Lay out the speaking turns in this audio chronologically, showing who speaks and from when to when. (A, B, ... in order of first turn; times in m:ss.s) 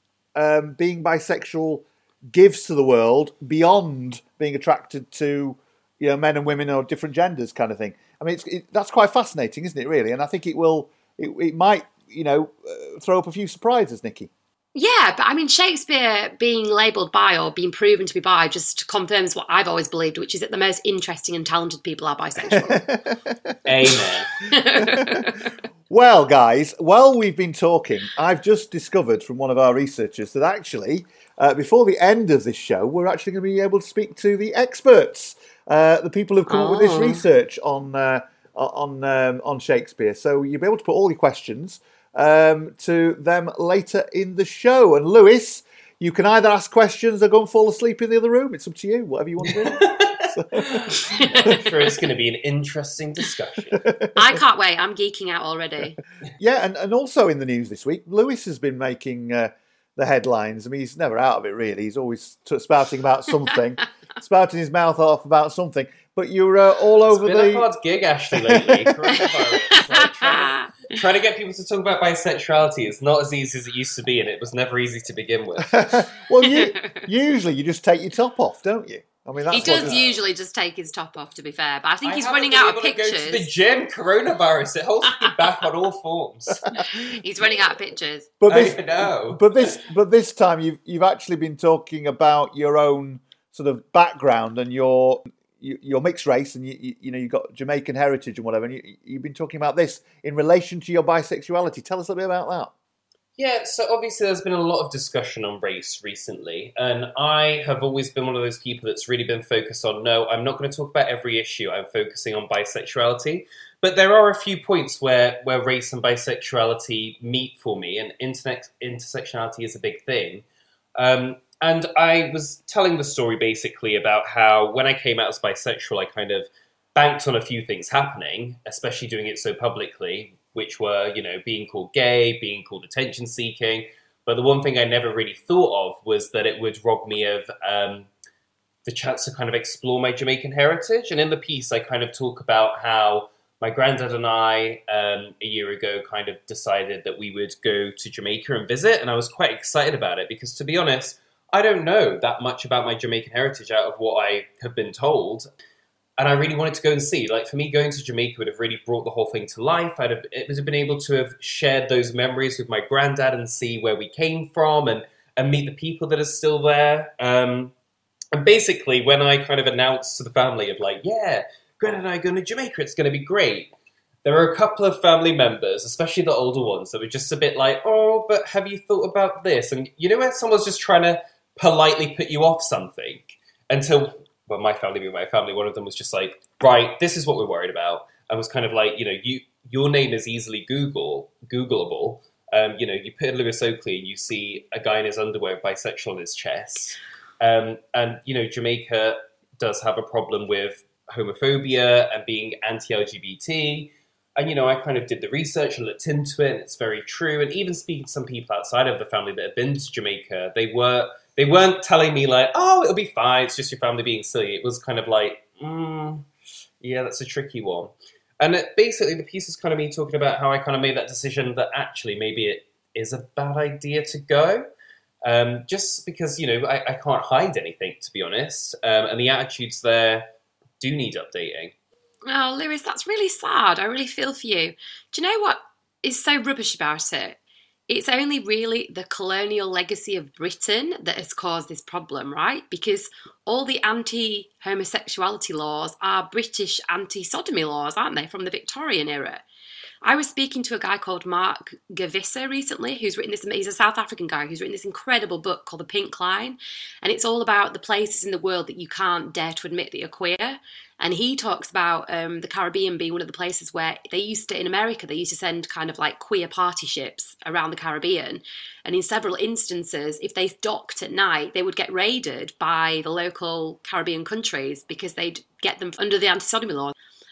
0:00.4-0:14.3 A
0:14.8-0:22.9 B
0:22.5-0:23.6 A
0:23.7-0:24.4 C
0:24.5-0:25.5 B
0:25.9-0:50.8 A
0:36.5-0:37.2 B
0:49.8-0:53.8 C
0:51.2-0:51.7 B
0:54.2-0:56.0 B
0:56.4-1:07.7 A
1:07.1-1:16.1 C
1:08.4-1:09.3 A
1:09.2-1:10.7 B
1:15.8-1:20.0 A
1:16.4-1:17.0 B
1:19.5-1:23.5 B
1:19.6-1:20.0 C
1:22.0-1:26.7 C
1:27.0-1:28.3 B
1:28.4-1:42.7 A
1:28.5-1:29.5 C
1:43.4-2:00.4 C
2:01.0-2:18.1 C
2:18.8-2:35.5 C
2:36.2-2:47.7 C
2:48.3-2:53.7 C
2:54.2-3:36.3 C
3:36.8-3:44.7 C
3:45.2-3:50.3 C
3:50.8-3:51.7 C
3:52.3-4:09.4 B
4:10.0-4:37.0 B